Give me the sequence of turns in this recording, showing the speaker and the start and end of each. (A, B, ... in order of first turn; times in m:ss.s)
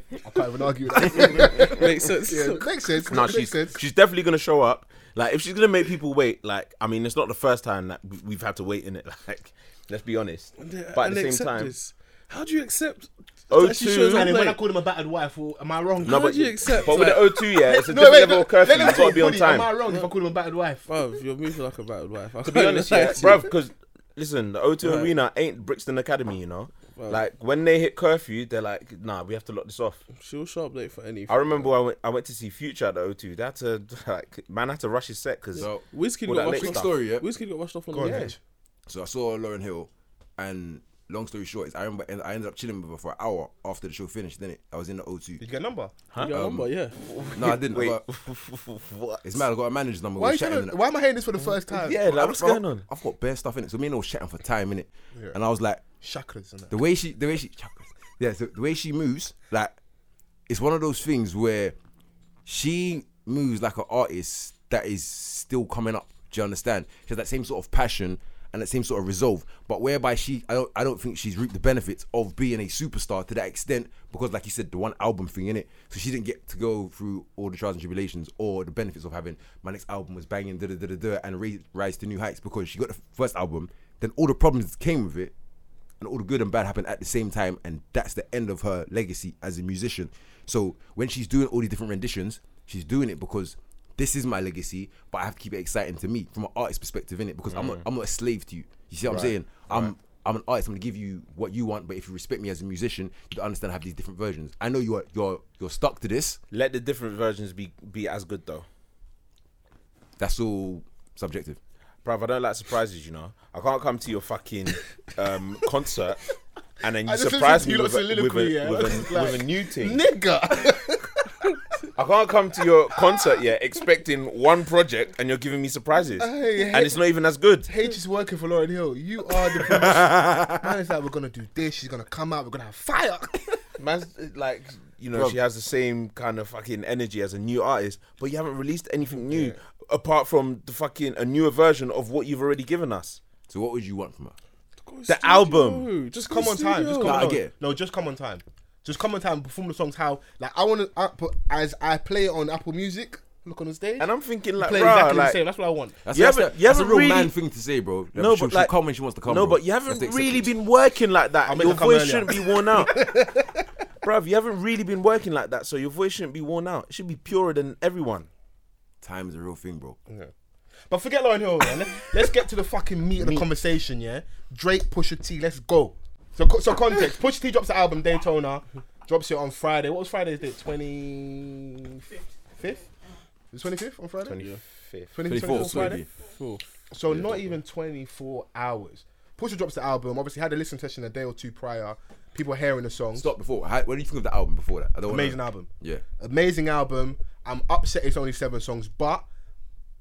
0:00.2-0:03.8 A
0:01.1-0:01.7 B
0:01.2-0:03.1 C
0:03.1-0:11.7 B
0:10.6-0:14.6 C
0:13.5-0:14.3 B
0:14.1-0:16.3 A
0:16.0-0:17.6 C
0:16.0-0:19.7 B
0:17.6-0:20.9 A
0:20.9-0:23.5 C
0:22.4-0:30.0 B
0:24.8-0:25.1 C
0:27.0-0:27.2 C
0:30.2-0:31.7 C
0:31.3-0:35.7 B
0:35.6-0:35.8 D
0:35.6-0:38.3 C
0:36.3-0:36.9 B
0:36.4-0:37.3 D
0:37.9-0:38.4 A
0:38.0-0:38.3 B
0:38.9-0:45.4 D
0:45.4-0:45.9 A
0:46.2-0:47.0 C
0:46.3-0:46.7 D
0:47.0-0:49.2 B
0:47.3-0:48.0 D
0:49.2-0:50.8 D
0:50.2-0:52.0 A
0:51.7-0:52.8 B
0:52.1-0:55.8 D
0:56.0-0:56.8 A
0:56.7-0:59.8 D
1:00.5-1:01.8 D
1:02.4-1:25.3 D
1:26.0-1:46.4 D
1:37.5-1:37.8 B
1:39.1-1:39.9 B
1:46.5-1:48.7 B
1:50.2-1:51.6 D
1:52.0-1:56.3 B
1:56.8-2:00.0 B
1:57.1-2:01.6 A
2:02.0-2:07.7 B
2:06.2-2:07.0 A
2:07.7-2:13.6 A
2:13.8-2:23.2 B
2:15.1-2:15.4 D
2:19.3-2:19.6 A
2:23.5-2:24.4 D
2:24.8-2:27.4 C
2:25.1-2:25.9 B
2:26.2-2:34.1 A
2:27.0-2:27.5 D
2:34.0-2:35.4 B
2:34.6-2:36.0 A
2:36.0-2:40.5 D
2:36.1-2:37.3 B
2:38.2-2:38.7 B
2:39.2-2:43.0 B
2:41.4-2:43.7 A
2:44.0-2:48.3 B
2:49.0-2:50.0 D
2:50.9-3:02.1 A
3:02.6-3:02.8 A
3:03.5-3:04.4 A
3:04.2-3:05.1 B
3:05.1-3:06.0 A
3:05.3-3:06.1 D
3:05.4-3:06.6 C
3:06.9-3:13.3 A
3:07.1-3:07.5 D
3:13.1-3:16.0 D
3:15.1-3:19.2 A